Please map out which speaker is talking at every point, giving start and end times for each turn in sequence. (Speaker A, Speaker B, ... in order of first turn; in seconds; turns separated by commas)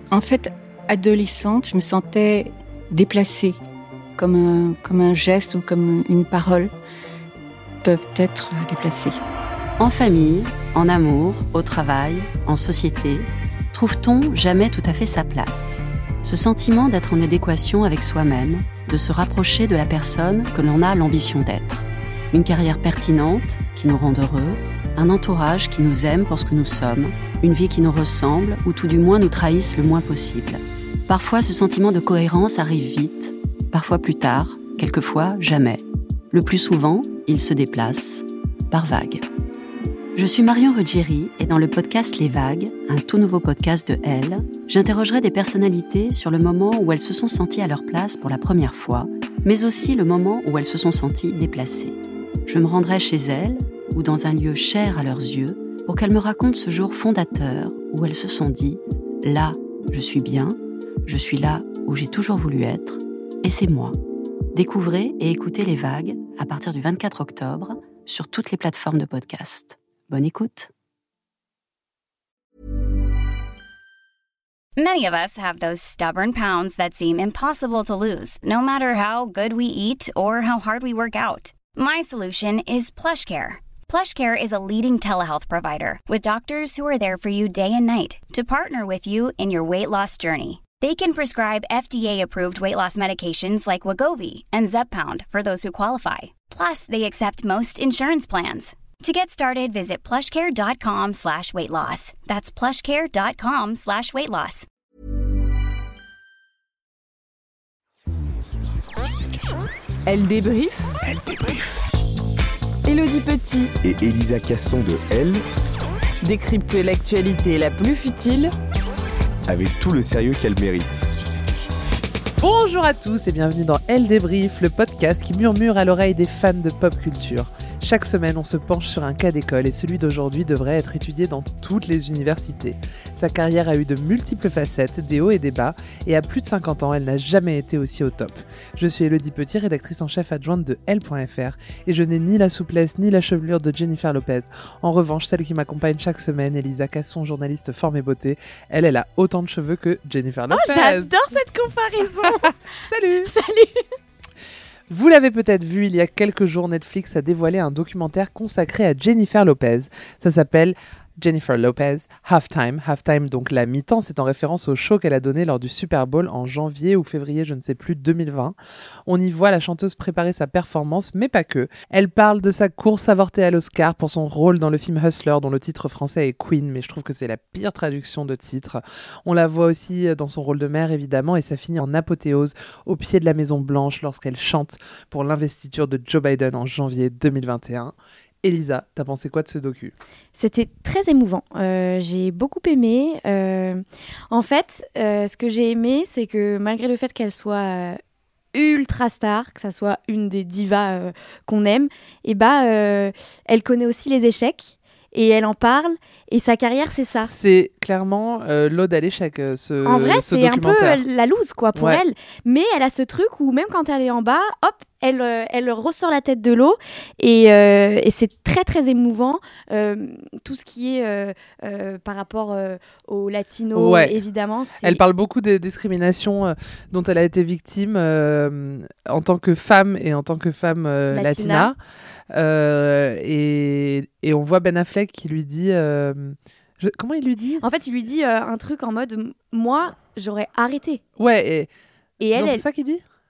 Speaker A: 0.1-3.6, Speaker A: 4.2-6.7, Speaker A: 7.8-9.2, Speaker B: 9.8-39.2, Speaker B: 40.1-64.0, Speaker B: 64.5-70.7, Speaker C: 74.8-104.7, Speaker D: 110.0-111.6, Speaker D: 112.8-113.8, Speaker E: 113.8-115.4, Speaker D: 116.2-118.5, Speaker E: 119.5-121.0, Speaker F: 122.4-151.3, Speaker G: 150.5-152.5, Speaker F: 152.2-153.3, Speaker G: 153.2-153.8, Speaker F: 154.9-189.9, Speaker G: 190.3-198.0, Speaker G: 198.5-207.3, Speaker F: 207.2-211.0, Speaker G: 209.8-225.0, Speaker F: 211.7-212.0, Speaker F: 223.7-224.2, Speaker F: 224.8-231.8, Speaker G: 231.1-231.7, Speaker F: 232.3-237.6, Speaker G: 237.6-241.0, Speaker F: 241.2-241.7, Speaker G: 242.2-242.6, Speaker F: 242.3-243.0